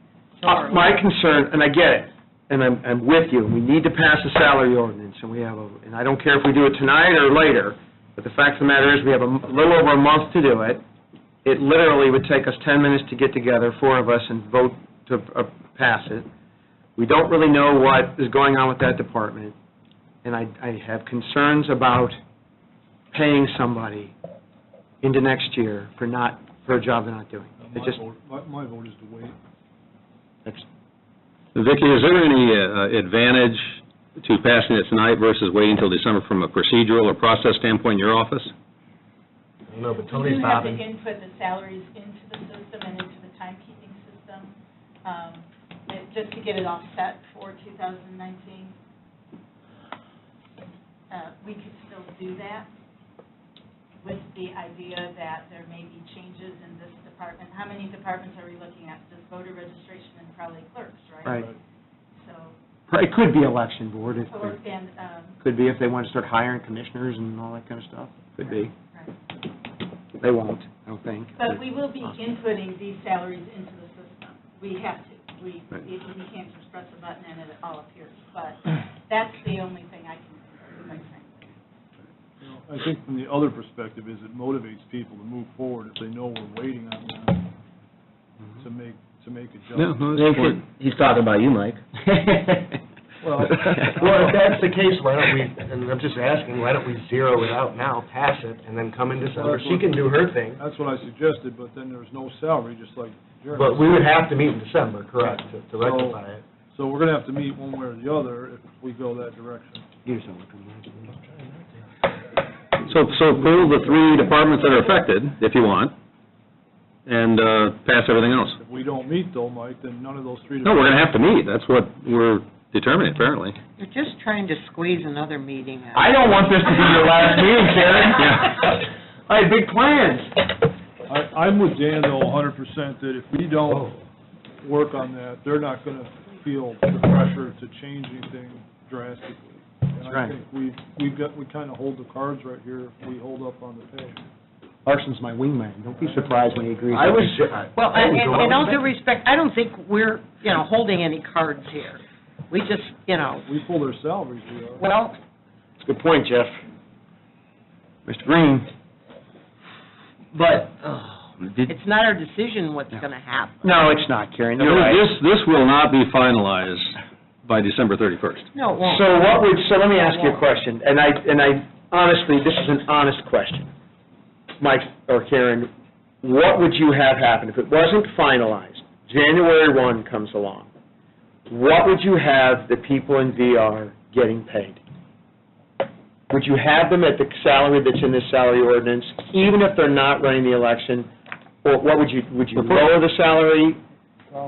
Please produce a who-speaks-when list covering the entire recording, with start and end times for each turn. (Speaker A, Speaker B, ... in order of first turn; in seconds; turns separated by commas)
Speaker A: 0.4-1.0, Speaker B: 0.4-10.8, Speaker B: 11.4-16.3, Speaker B: 17.0-19.6, Speaker B: 20.2-22.2, Speaker B: 23.1-24.1, Speaker B: 25.0-28.0, Speaker C: 27.6-29.4, Speaker D: 31.6-38.5, Speaker E: 39.7-40.9, Speaker F: 40.1-48.8, Speaker F: 51.1-52.7, Speaker F: 54.0-61.5, Speaker F: 62.2-62.5, Speaker B: 62.9-64.6, Speaker F: 64.2-65.4, Speaker B: 65.4-68.7, Speaker F: 68.4-69.1, Speaker B: 70.2-71.6, Speaker F: 71.4-81.5, Speaker C: 82.4-87.5, Speaker C: 88.6-90.3, Speaker D: 89.9-90.6, Speaker G: 89.9-92.6, Speaker C: 93.2-94.2, Speaker E: 93.9-100.6, Speaker C: 99.2-104.0, Speaker E: 103.5-106.5, Speaker C: 105.8-106.2, Speaker C: 106.7-109.9, Speaker B: 110.1-110.6, Speaker E: 111.0-111.6, Speaker D: 112.9-115.9, Speaker D: 117.1-118.6, Speaker C: 118.6-121.1, Speaker D: 120.6-123.6, Speaker A: 123.8-126.4, Speaker B: 125.9-130.5, Speaker C: 131.1-133.9, Speaker E: 133.7-133.9, Speaker C: 134.6-144.2, Speaker B: 140.1-140.3, Speaker B: 144.9-147.4, Speaker C: 146.0-146.7, Speaker E: 146.9-148.8, Speaker A: 147.8-153.5, Speaker C: 153.5-154.8, Speaker A: 154.8-155.2, Speaker B: 155.8-156.6, Speaker B: 158.1-158.7, Speaker B: 160.3-160.7, Speaker A: 161.7-163.7, Speaker B: 163.6-165.1, Speaker D: 164.6-168.5, Speaker A: 168.5-170.4, Speaker B: 168.8-173.7, Speaker B: 174.6-175.7, Speaker B: 176.2-180.7, Speaker B: 181.5-184.8, Speaker B: 186.3-191.1, Speaker B: 191.6-193.8, Speaker D: 192.6-192.9